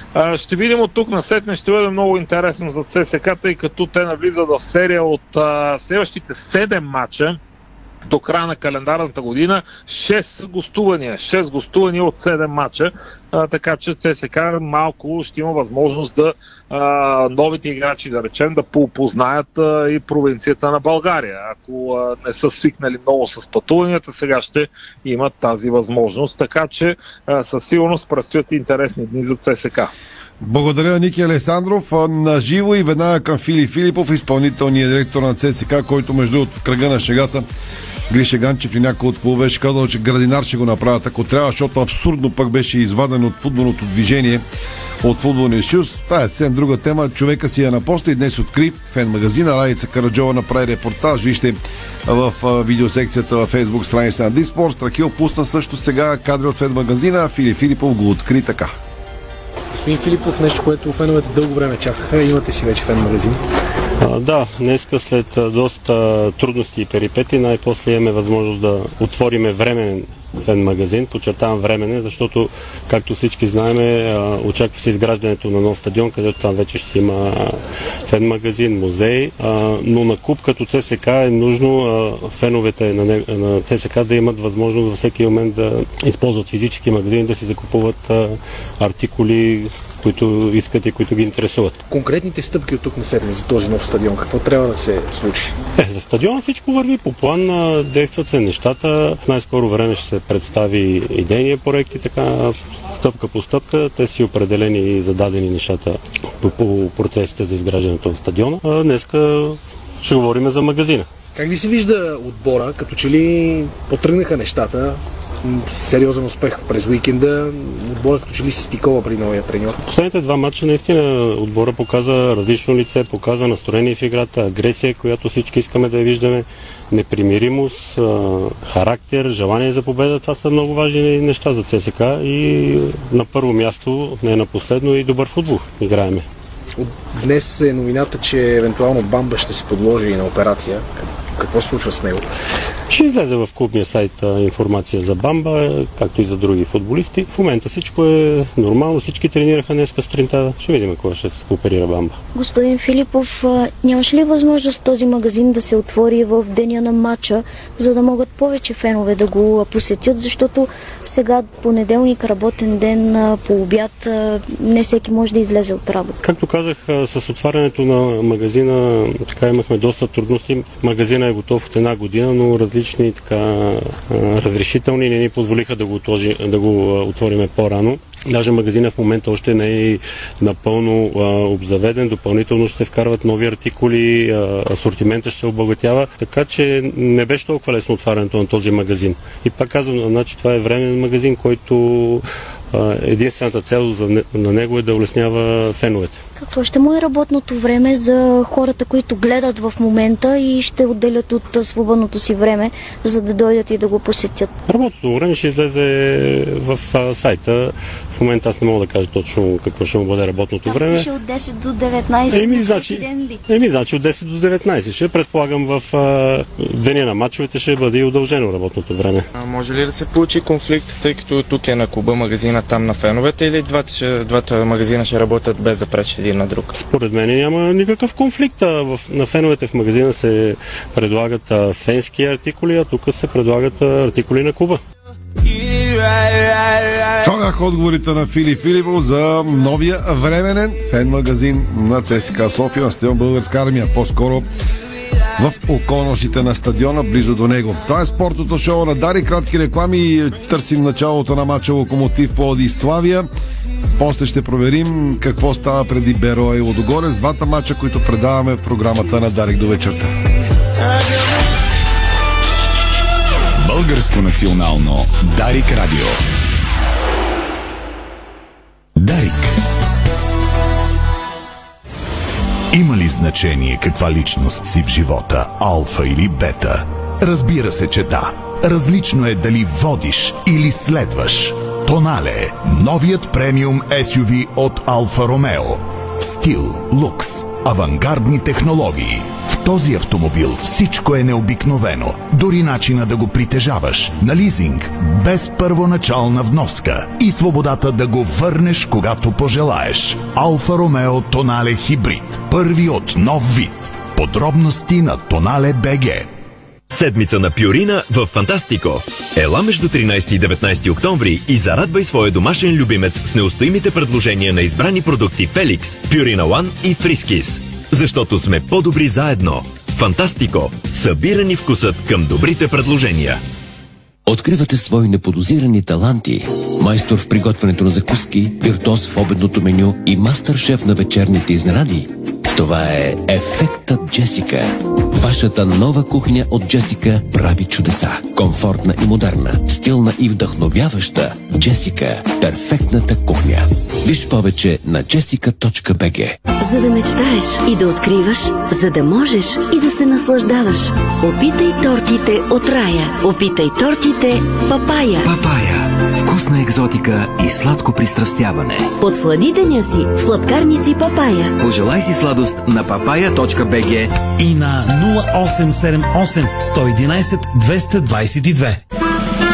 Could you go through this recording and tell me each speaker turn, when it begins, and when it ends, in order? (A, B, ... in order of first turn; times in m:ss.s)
0:00.2-0:07.4 A
0:08.1-0:29.9 A
0:30.4-0:37.5 B
0:38.1-0:44.4 B
0:45.0-0:58.7 B
0:59.8-1:03.4 C
1:04.0-1:31.8 D
1:31.9-1:35.6 C
1:35.8-1:51.1 D
1:51.4-1:59.8 C
1:59.8-2:16.2 D
2:16.8-2:22.3 C
2:22.9-2:32.2 D
2:32.4-2:46.2 E
2:46.2-3:16.2 D
3:16.4-3:24.5 E
3:24.7-3:31.1 D
3:30.6-3:33.4 E
3:32.3-3:39.3 D
3:39.4-3:46.7 F
3:46.8-3:54.8 D
3:57.2-4:04.5 B
4:05.4-4:13.3 B
4:14.0-4:20.1 B
4:23.6-4:26.2 G
4:29.0-4:29.6 G
4:32.7-5:06.3 G
5:06.9-5:23.4 H
5:24.3-5:46.4 I
5:46.6-5:55.3 J
5:55.2-5:58.9 K
5:59.0-6:01.5 J
6:01.6-6:04.2 K
6:04.4-6:08.8 L